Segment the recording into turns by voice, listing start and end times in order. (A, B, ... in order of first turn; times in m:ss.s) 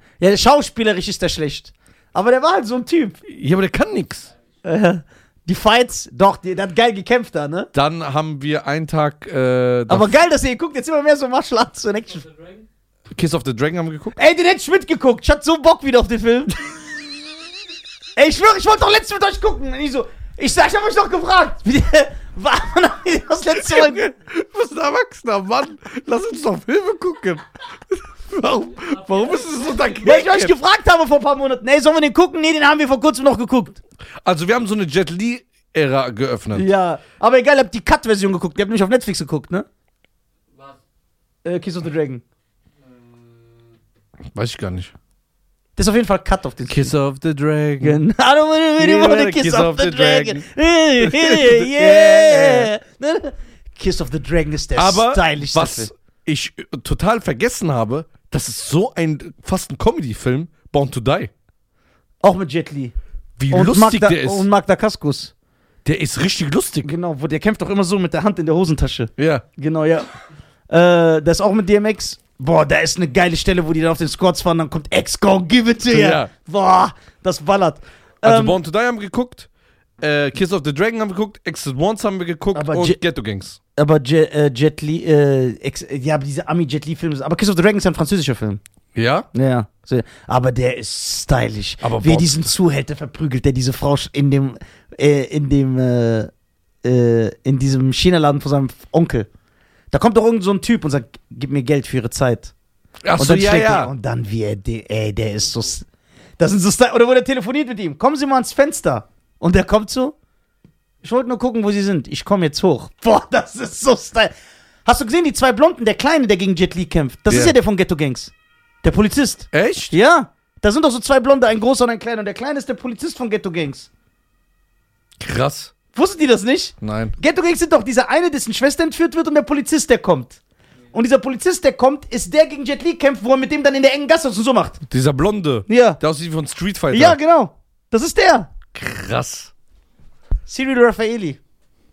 0:00.2-0:03.2 A
0:03.2-0:04.3 B
0:04.3-0:04.8 C
0:04.6-0:07.7 A
0:07.7-0:10.1 B
0:09.9-0:12.2 A
0:12.0-0:12.7 C
0:13.1-0:14.2 B
0:14.2-0:16.8 A
0:18.2-0:24.1 A
0:23.6-0:30.5 B
0:28.5-0:30.4 C
0:30.0-0:33.8 A
0:34.2-0:36.7 B
0:36.5-0:39.6 A
0:40.5-0:40.8 C
0:41.4-0:42.2 A
0:42.8-0:43.8 C
0:44.3-0:44.9 B
0:45.8-0:46.9 A
0:46.7-0:48.0 B
0:47.8-0:55.9 A
0:48.8-0:50.5 B
0:51.0-0:52.7 B
0:54.7-1:01.3 B
1:02.2-1:02.9 A
1:03.4-1:04.4 B
1:03.5-1:05.3 A
1:05.8-1:06.9 B
1:06.8-1:10.1 A
1:09.2-1:09.4 B
1:10.7-1:18.6 A
1:15.9-1:16.3 B
1:18.2-1:19.5 B
1:20.0-1:23.6 B
1:22.5-1:23.0 A
1:23.8-1:28.6 A
1:28.9-1:29.3 B
1:29.3-1:36.3 A
1:31.8-1:32.3 B
1:36.8-1:39.3 A
1:39.9-1:42.5 A
1:43.0-1:43.9 B
1:43.2-1:45.8 A
1:46.4-1:50.2 A
1:51.0-1:54.3 A
1:54.8-1:58.3 A
1:57.3-1:57.5 B
1:58.8-2:03.9 A
1:59.5-1:59.9 B
2:05.2-2:05.7 B
2:05.9-2:10.4 A
2:06.8-2:07.2 B
2:10.9-2:14.8 A
2:14.9-2:17.2 B
2:15.7-2:16.0 A
2:16.9-2:18.5 A
2:18.7-2:19.5 B
2:20.5-2:21.4 A